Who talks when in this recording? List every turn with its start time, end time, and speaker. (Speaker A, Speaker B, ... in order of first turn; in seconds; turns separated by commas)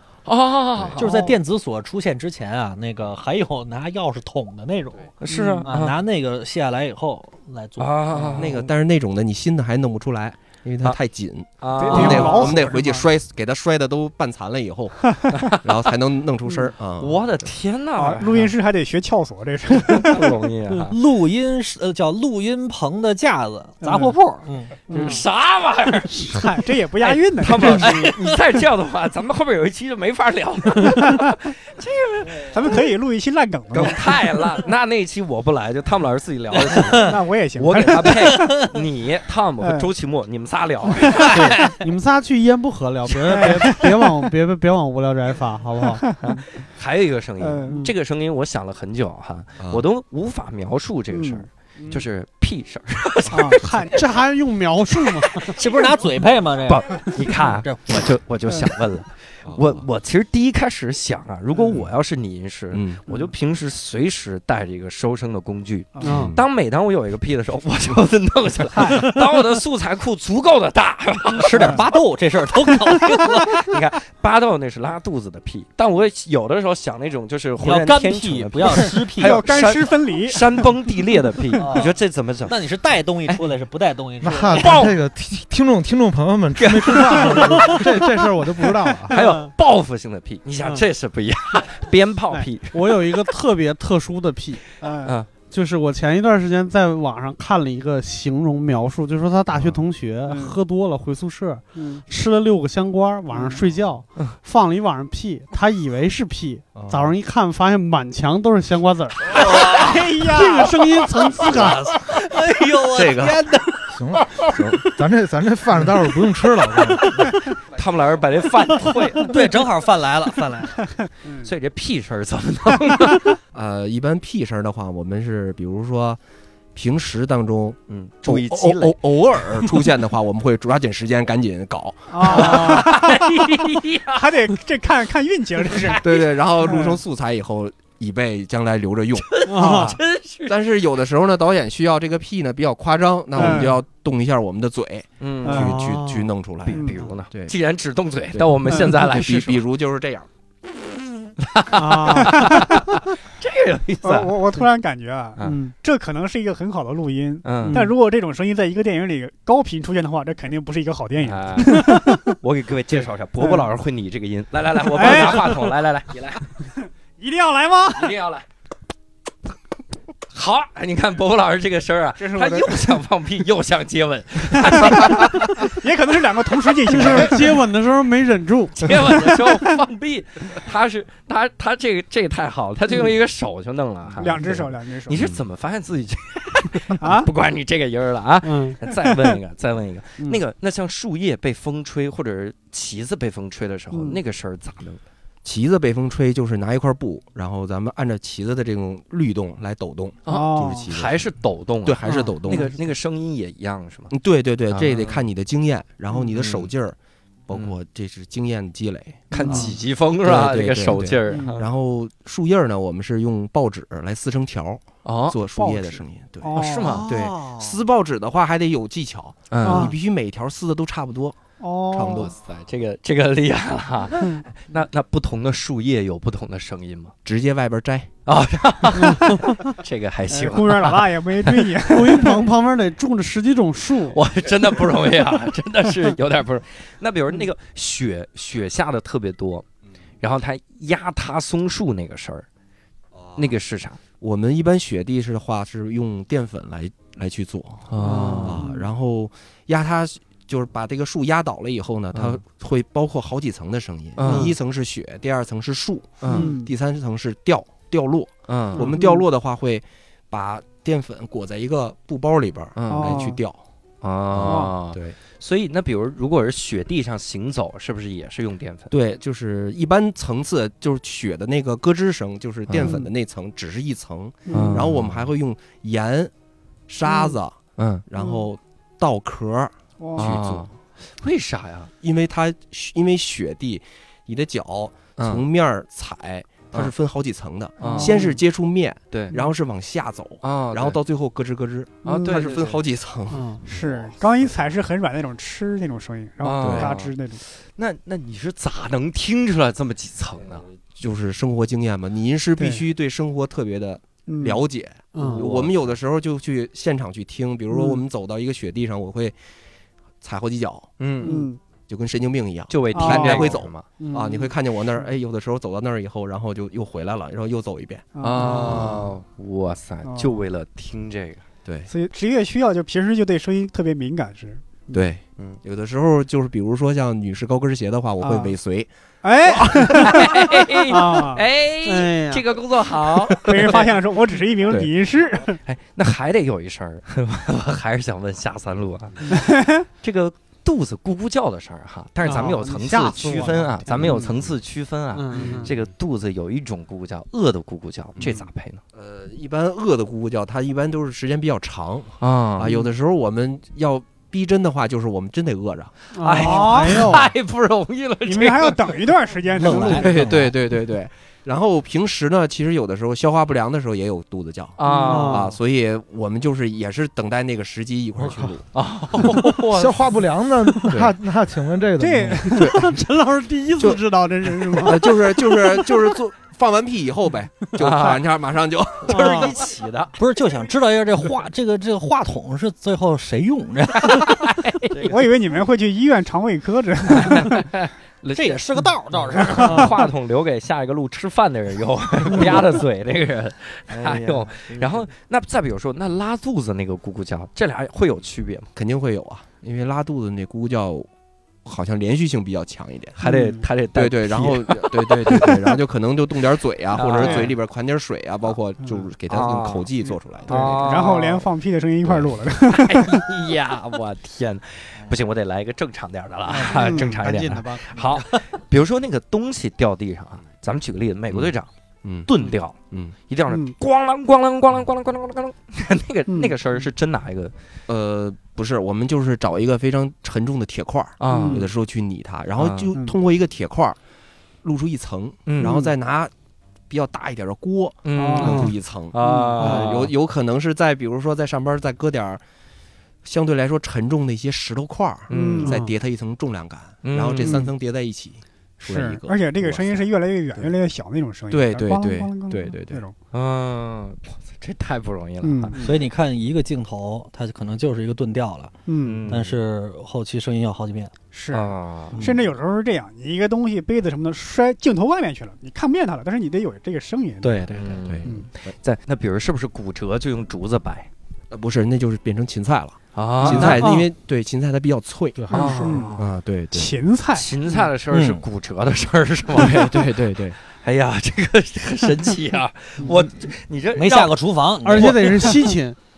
Speaker A: 0.2-1.1, Speaker B: 0.7-1.0, Speaker C: 1.0-5.1, Speaker D: 1.0-1.3, Speaker A: 5.2-6.0, Speaker D: 5.3-5.7, Speaker C: 5.6-8.4, Speaker A: 7.8-8.7, Speaker B: 8.3-17.4, Speaker A: 11.6-12.6, Speaker D: 11.7-13.1, Speaker E: 11.9-12.6, Speaker D: 15.1-15.4, Speaker A: 15.3-15.9, Speaker A: 17.0-18.5, Speaker D: 17.9-20.5, Speaker A: 19.7-21.0, Speaker C: 20.9-24.9, Speaker D: 23.8-24.1, Speaker D: 24.9-25.3, Speaker A: 24.9-26.4, Speaker D: 26.0-28.2, Speaker A: 27.0-32.9, Speaker D: 30.9-31.4, Speaker D: 32.4-34.4, Speaker A: 33.7-41.7, Speaker D: 36.7-38.6, Speaker C: 38.2-38.7, Speaker D: 39.6-39.9, Speaker D: 41.0-41.4, Speaker E: 41.3-46.0, Speaker D: 43.2-43.9, Speaker D: 46.0-46.4, Speaker A: 46.2-54.0, Speaker D: 47.4-47.9, Speaker D: 51.1-52.0, Speaker D: 53.3-54.1, Speaker E: 53.9-55.6, Speaker A: 55.3-55.6, Speaker C: 55.6-58.0, Speaker A: 56.7-71.8, Speaker B: 59.5-59.9, Speaker B: 62.7-63.1, Speaker D: 65.9-66.3, Speaker B: 66.0-66.4, Speaker E: 66.0-66.4, Speaker D: 68.7-69.0, Speaker C: 71.4-73.7, Speaker E: 71.6-71.8, Speaker A: 73.5-82.6, Speaker C: 77.6-79.4, Speaker D: 78.7-80.6, Speaker C: 81.6-84.8, Speaker F: 84.2-89.2, Speaker A: 84.5-85.0, Speaker A: 86.6-88.0, Speaker A: 89.1-93.3, Speaker E: 89.1-89.4, Speaker E: 92.7-94.6, Speaker D: 94.8-95.2, Speaker A: 95.0-95.3, Speaker E: 95.3-109.4, Speaker D: 100.3-100.6, Speaker D: 101.7-102.0, Speaker D: 103.3-103.6, Speaker B: 106.7-107.1, Speaker D: 109.3-110.8, Speaker A: 109.4-110.0, Speaker E: 110.2-111.8, Speaker C: 111.4-113.6, Speaker A: 111.4-112.3, Speaker B: 112.9-113.4, Speaker F: 113.9-117.4, Speaker B: 114.5-114.8, Speaker A: 117.7-119.5, Speaker C: 119.2-120.9, Speaker D: 121.0-121.5, Speaker A: 121.4-123.4, Speaker B: 123.5-126.2, Speaker B: 126.7-132.9, Speaker A: 127.9-129.0, Speaker D: 132.1-136.0, Speaker A: 132.3-134.5, Speaker A: 135.6-136.4, Speaker B: 136.0-147.5, Speaker D: 136.6-137.0, Speaker A: 139.3-140.6, Speaker E: 139.4-140.0, Speaker D: 143.3-143.8, Speaker A: 143.4-143.7, Speaker A: 145.2-145.8, Speaker D: 145.4-145.7, Speaker E: 145.5-146.3, Speaker A: 146.6-149.6, Speaker D: 146.7-147.2, Speaker B: 148.3-150.3, Speaker A: 151.4-154.4, Speaker E: 151.7-152.5, Speaker D: 152.0-152.9, Speaker D: 154.0-162.4, Speaker E: 155.4-155.7, Speaker A: 157.4-157.9, Speaker E: 157.6-157.9, Speaker A: 161.2-166.5, Speaker D: 163.4-163.7, Speaker D: 164.8-165.7, Speaker D: 166.8-168.2, Speaker A: 167.9-168.4, Speaker A: 170.3-175.7, Speaker D: 172.2-173.0, Speaker D: 174.5-177.6, Speaker E: 176.9-178.9, Speaker A: 176.9-177.3, Speaker A: 178.8-195.0, Speaker D: 184.2-185.2, Speaker B: 185.1-185.4, Speaker D: 186.9-187.3, Speaker E: 188.4-188.8, Speaker D: 188.9-189.3, Speaker D: 193.9-194.2, Speaker B: 195.4-201.3, Speaker A: 200.2-204.1, Speaker D: 200.3-200.9, Speaker B: 201.8-202.7, Speaker D: 202.1-202.7, Speaker B: 204.1-206.9, Speaker A: 204.7-205.2, Speaker A: 206.3-206.7, Speaker B: 207.5-221.4, Speaker A: 209.3-211.7, Speaker D: 209.3-209.8, Speaker D: 211.3-211.6, Speaker A: 215.0-215.4, Speaker D: 215.6-217.2, Speaker A: 216.5-217.1, Speaker A: 219.5-219.9, Speaker D: 219.6-219.9, Speaker D: 221.6-222.3, Speaker B: 221.9-222.3, Speaker A: 222.1-227.1, Speaker B: 227.2-228.1, Speaker A: 228.2-232.3, Speaker D: 230.3-232.4, Speaker E: 231.9-234.2, Speaker A: 234.1-239.6, Speaker A: 240.2-242.4, Speaker B: 243.2-243.5, Speaker A: 243.3-244.0, Speaker B: 244.2-263.6, Speaker A: 247.9-248.6, Speaker E: 248.0-248.6, Speaker D: 248.6-248.9, Speaker A: 252.1-252.4, Speaker A: 254.2-254.5, Speaker A: 256.2-256.5, Speaker D: 256.3-256.7, Speaker A: 258.5-258.9, Speaker D: 258.8-259.2, Speaker A: 262.8-263.2, Speaker D: 262.9-263.4, Speaker A: 264.0-268.9, Speaker B: 264.3-265.1, Speaker D: 264.4-264.8, Speaker B: 268.9-276.3, Speaker A: 272.7-273.0, Speaker D: 272.8-273.1, Speaker D: 274.4-274.9, Speaker A: 274.5-275.2, Speaker B: 276.9-280.7, Speaker D: 277.0-277.4, Speaker D: 278.2-278.4, Speaker D: 280.0-280.4, Speaker A: 280.2-281.9, Speaker B: 282.0-294.1, Speaker A: 285.2-285.4, Speaker A: 287.8-288.4, Speaker E: 287.8-288.1, Speaker D: 287.9-288.3, Speaker A: 289.1-289.4, Speaker A: 290.4-291.0, Speaker A: 292.0-292.8, Speaker E: 293.3-293.6, Speaker D: 293.6-297.4, Speaker A: 296.4-300.6, Speaker B: 296.6-296.9, Speaker B: 301.0-309.4, Speaker D: 302.6-302.8, Speaker D: 304.2-304.6, Speaker E: 305.1-305.4, Speaker A: 305.2-305.9, Speaker D: 307.7-308.0, Speaker B: 310.2-319.1, Speaker A: 311.0-311.4, Speaker D: 311.2-311.6, Speaker A: 312.7-313.9, Speaker D: 312.9-314.4, Speaker E: 314.0-314.4, Speaker D: 318.1-319.0, Speaker A: 318.2-321.4, Speaker D: 320.0-320.4, Speaker B: 321.6-321.9, Speaker D: 321.9-325.0, Speaker B: 324.9-328.9, Speaker D: 328.2-328.5, Speaker D: 329.2-331.4, Speaker B: 329.4-330.3, Speaker A: 330.0-333.9, Speaker E: 331.8-332.4, Speaker D: 333.3-335.6, Speaker A: 335.6-339.3, Speaker D: 339.2-339.9, Speaker A: 340.0-348.8, Speaker E: 342.2-344.2, Speaker B: 343.9-344.3, Speaker E: 345.1-345.7, Speaker B: 345.4-345.7, Speaker B: 348.9-355.9, Speaker A: 352.2-352.7, Speaker E: 356.1-357.3, Speaker A: 356.2-359.0, Speaker D: 356.4-357.1, Speaker D: 358.2-360.2, Speaker C: 359.5-360.5, Speaker B: 360.0-368.7, Speaker A: 364.8-365.6, Speaker E: 364.9-365.6, Speaker A: 368.7-370.1, Speaker F: 369.7-372.5, Speaker B: 370.9-371.1, Speaker D: 372.0-372.8, Speaker E: 372.5-375.1, Speaker B: 372.5-373.0, Speaker B: 374.6-379.5, Speaker A: 377.8-378.2, Speaker A: 379.0-380.1, Speaker E: 379.1-379.6, Speaker C: 380.2-384.4, Speaker A: 384.0-385.3, Speaker D: 385.0-387.6, Speaker A: 387.1-388.6, Speaker C: 388.3-389.9, Speaker A: 389.1-398.7, Speaker B: 398.8-401.1, Speaker B: 401.6-403.2, Speaker A: 403.2-405.8, Speaker D: 403.2-403.6, Speaker B: 403.9-411.0, Speaker A: 406.9-407.5, Speaker D: 407.2-407.5, Speaker A: 409.3-409.9, Speaker D: 410.0-413.3, Speaker A: 410.5-411.5, Speaker A: 412.7-421.7, Speaker E: 416.5-418.2, Speaker D: 416.7-417.2, Speaker B: 422.0-422.3, Speaker A: 422.3-427.5, Speaker D: 423.5-423.7, Speaker D: 426.3-426.6, Speaker B: 427.9-434.0, Speaker A: 431.2-431.7, Speaker D: 431.3-431.7, Speaker A: 432.6-432.9, Speaker B: 434.6-436.3, Speaker A: 435.5-435.8, Speaker D: 435.6-435.9, Speaker B: 436.9-442.4, Speaker A: 438.0-440.1, Speaker D: 438.1-438.7, Speaker D: 439.2-439.9, Speaker B: 443.2-450.7, Speaker D: 445.3-445.9, Speaker A: 445.3-445.8, Speaker A: 447.0-447.7, Speaker D: 447.4-447.7, Speaker D: 448.8-453.1, Speaker B: 451.5-453.0, Speaker A: 453.3-455.8, Speaker D: 455.4-456.0, Speaker C: 455.8-458.7, Speaker D: 458.9-459.4, Speaker A: 459.0-459.6, Speaker C: 459.3-461.1, Speaker D: 461.3-467.7, Speaker A: 461.5-462.3, Speaker C: 467.4-467.7, Speaker A: 467.7-471.1, Speaker B: 467.7-468.7, Speaker B: 471.5-475.5, Speaker A: 473.1-473.9, Speaker D: 473.5-473.8, Speaker E: 473.5-474.1, Speaker F: 475.4-476.1, Speaker A: 475.5-476.1, Speaker D: 475.6-476.2, Speaker B: 476.2-476.9, Speaker D: 476.7-477.5, Speaker A: 477.3-480.2, Speaker C: 478.1-478.4, Speaker B: 479.5-480.6, Speaker A: 480.8-484.4, Speaker C: 483.9-485.5, Speaker E: 484.8-486.0, Speaker A: 484.9-485.3